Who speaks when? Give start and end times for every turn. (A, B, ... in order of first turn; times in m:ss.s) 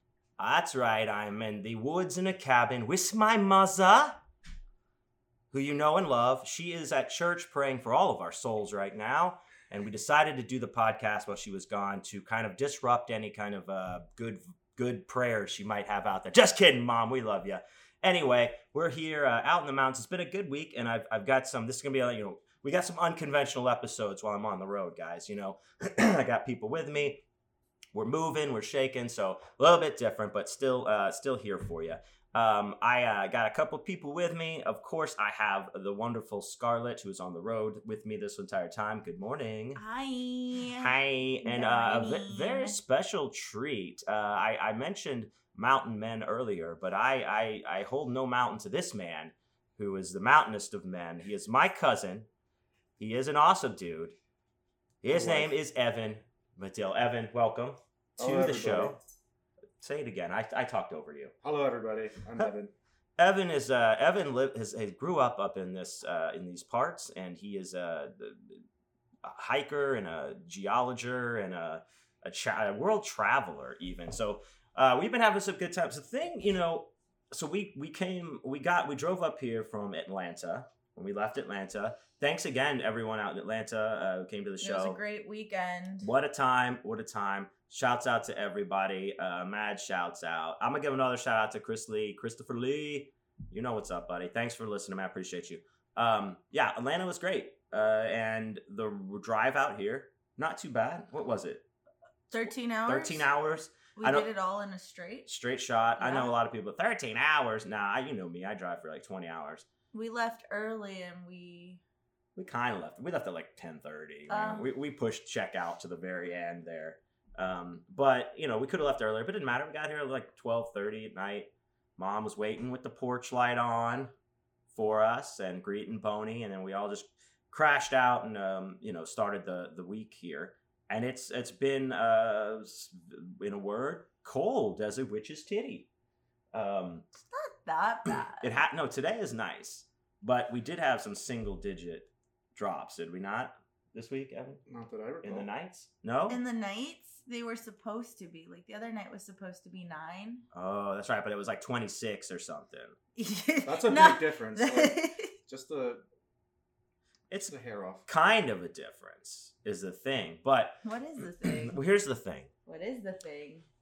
0:00.4-0:04.2 A
0:05.5-0:27.2 A
0:27.9-0:39.8 A
0:39.8-0:42.8 B
0:40.7-0:52.3 A
0:53.0-0:54.2 A
0:55.0-0:59.0 A
0:55.1-0:55.5 C
0:58.2-0:59.0 C
0:59.8-1:01.3 A
1:01.4-1:02.7 C
1:03.2-1:08.6 A
1:09.2-1:25.0 A
1:24.6-1:26.1 B
1:26.0-1:41.6 A
1:42.3-1:43.2 B
1:42.3-1:44.3 A
1:44.0-1:45.3 B
1:45.3-1:49.7 A
1:46.0-1:46.3 B
1:49.9-1:51.8 B
1:52.4-2:04.1 A
1:54.3-1:54.7 B
2:04.7-2:15.9 A
2:16.5-2:17.1 A
2:17.3-2:18.5 B
2:18.4-2:24.6 A
2:24.7-2:25.5 C
2:25.2-2:26.4 A
2:26.3-2:30.5 B
2:30.5-2:33.0 A
2:33.2-2:35.3 B
2:33.6-2:36.0 C
2:37.3-2:37.6 A
2:37.5-2:38.0 C
2:38.1-2:40.8 A
2:40.8-2:41.8 B
2:41.6-2:42.5 A
2:42.7-2:43.7 B